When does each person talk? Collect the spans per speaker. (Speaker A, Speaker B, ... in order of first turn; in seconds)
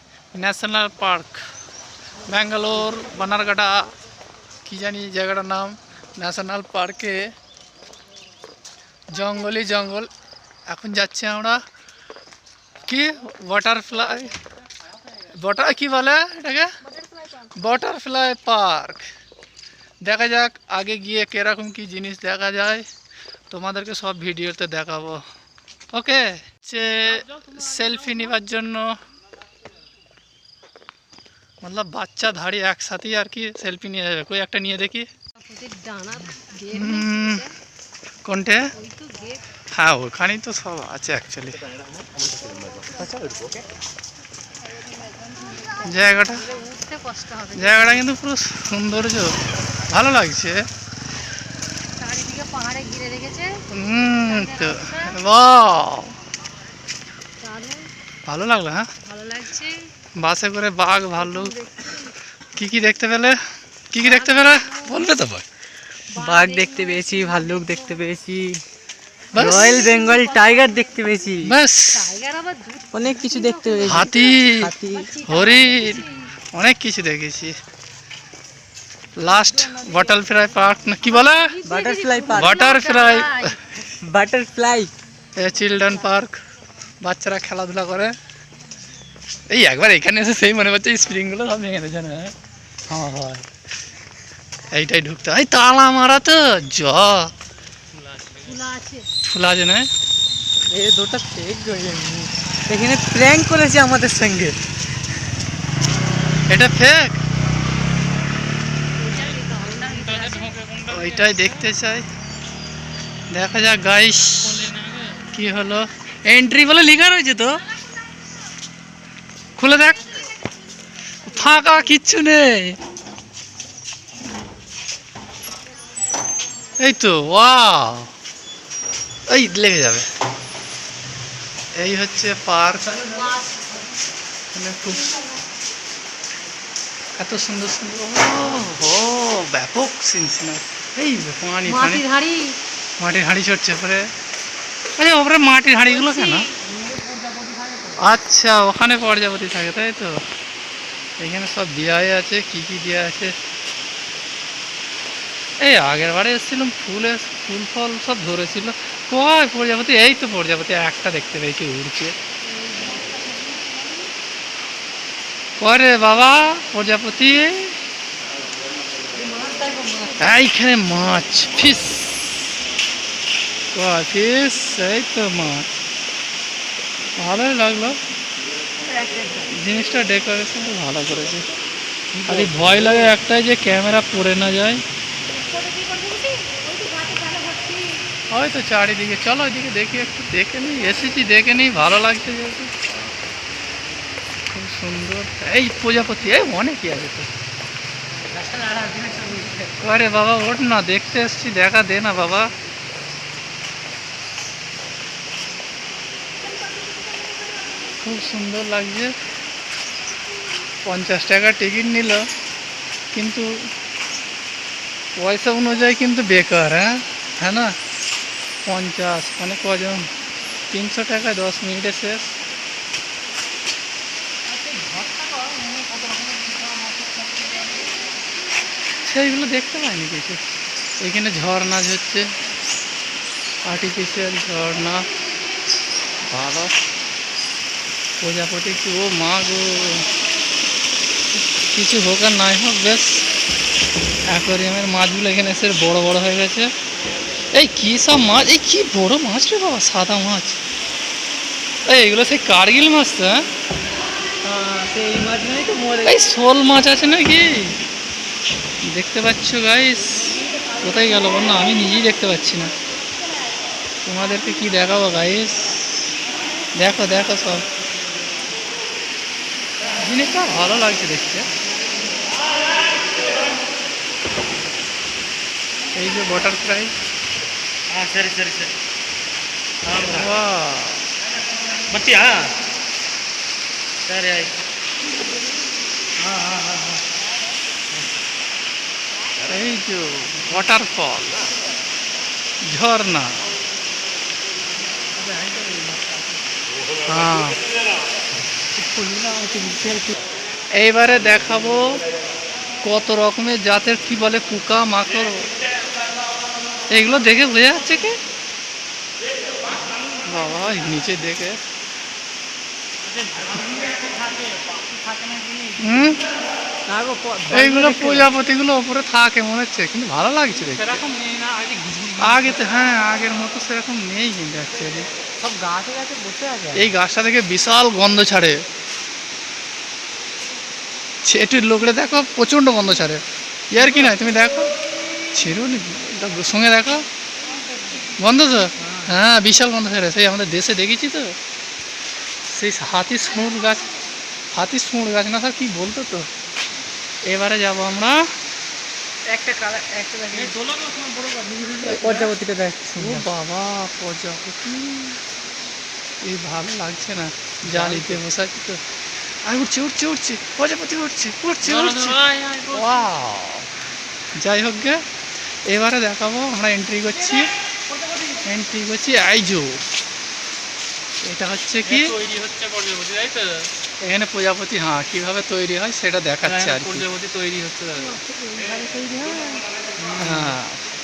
Speaker A: 0.3-1.5, 2.3-3.9, 4.6-7.2, 9.1-10.1, 10.7-11.6, 12.8-14.4, 15.1-16.7, 17.4-19.1, 20.0-22.8, 23.5-25.2, 25.9-29.0, 31.6-35.1, 36.7-37.4, 38.2-38.7, 39.7-41.6, 45.8-46.4, 47.5-49.4, 49.9-50.6, 53.7-56.1, 58.2-58.9, 60.1-61.6, 62.5-65.5, 69.3-69.8, 71.4-72.1, 73.8-74.7, 75.2-77.5, 79.2-81.5, 82.3-83.5, 85.3-86.4, 87.0-88.1, 89.5-92.3, 92.9-93.5, 94.7-97.3, 99.2-99.9, 106.5-107.2, 110.9-112.1, 113.3-114.7, 115.2-117.6, 119.6-120.1, 121.2-122.8, 126.8-128.1, 129.3-130.1, 131.7-133.2, 134.5-135.2, 137.2-142.0, 143.0-144.1, 145.0-146.5, 148.0-150.2, 151.2-153.3, 155.6-162.1, 165.6-167.8, 170.2-172.5, 173.7-175.7, 177.2-178.0, 179.5-181.5, 182.3-184.8, 188.3-192.7, 194.5-197.3, 199.8-202.5, 208.0-209.1, 210.8-212.2, 213.1-213.5, 215.2-217.7, 218.7-220.1, 220.7-222.3, 229.0-230.4, 231.0-232.3, 233.7-235.1, 236.2-236.7, 238.2-240.1, 241.6-243.3, 244.3-246.7, 247.5-250.6, 251.8-253.4, 256.0-257.8, 258.8-262.7, 264.1-266.1, 266.7-267.6, 270.0-271.5, 275.9-276.9, 279.9-281.1, 289.4-291.5, 292.6-293.4, 297.0-297.6, 300.7-302.0, 302.8-305.5, 306.9-308.2, 310.2-311.6, 315.8-316.2, 317.5-321.0, 322.2-325.1, 326.7-328.6, 331.2-334.7, 335.3-337.1, 338.2-341.4, 342.4-343.9, 344.5-346.3, 347.2-348.3, 353.0-355.2, 356.2-363.7, 364.3-365.0, 365.6-367.5, 368.4-369.8, 371.2-372.1, 374.0-377.1, 380.1-380.9
Speaker B: 17.0-17.2, 35.4-37.5, 38.8-39.4, 45.6-48.0, 52.0-53.6, 54.2-55.2, 57.4-57.9, 59.0-59.8, 61.2-62.1, 64.0-65.0, 66.1-68.0, 69.3-71.0, 71.9-76.3, 81.0-83.6, 98.4-99.1, 109.0-110.6, 133.0-133.6, 141.7-142.6, 145.9-146.5, 162.4-164.1, 169.1-170.4, 179.0-179.4, 185.4-187.9, 378.0-379.6
Speaker C: 27.1-28.2, 98.0-98.5, 109.2-111.6, 114.4-115.2, 146.7-148.0, 182.1-183.1, 198.7-199.6, 224.5-227.9, 277.9-278.7, 279.9-280.3, 281.9-282.4, 284.1-284.5, 286.2-287.0, 295.2-296.2, 298.9-300.1, 313.1-315.9, 320.6-322.6, 333.8-334.1, 338.8-339.1, 350.3-352.3, 357.7-358.2, 361.6-363.0, 368.0-368.4, 371.9-373.7, 376.4-378.2, 379.5-380.6
Speaker D: 66.1-68.6, 69.3-71.5, 72.9-75.1, 81.6-82.6, 84.0-84.9, 100.7-104.5, 198.3-199.7, 224.5-225.5, 254.4-256.2, 316.9-318.3, 325.4-326.9, 349.3-350.5, 351.8-353.2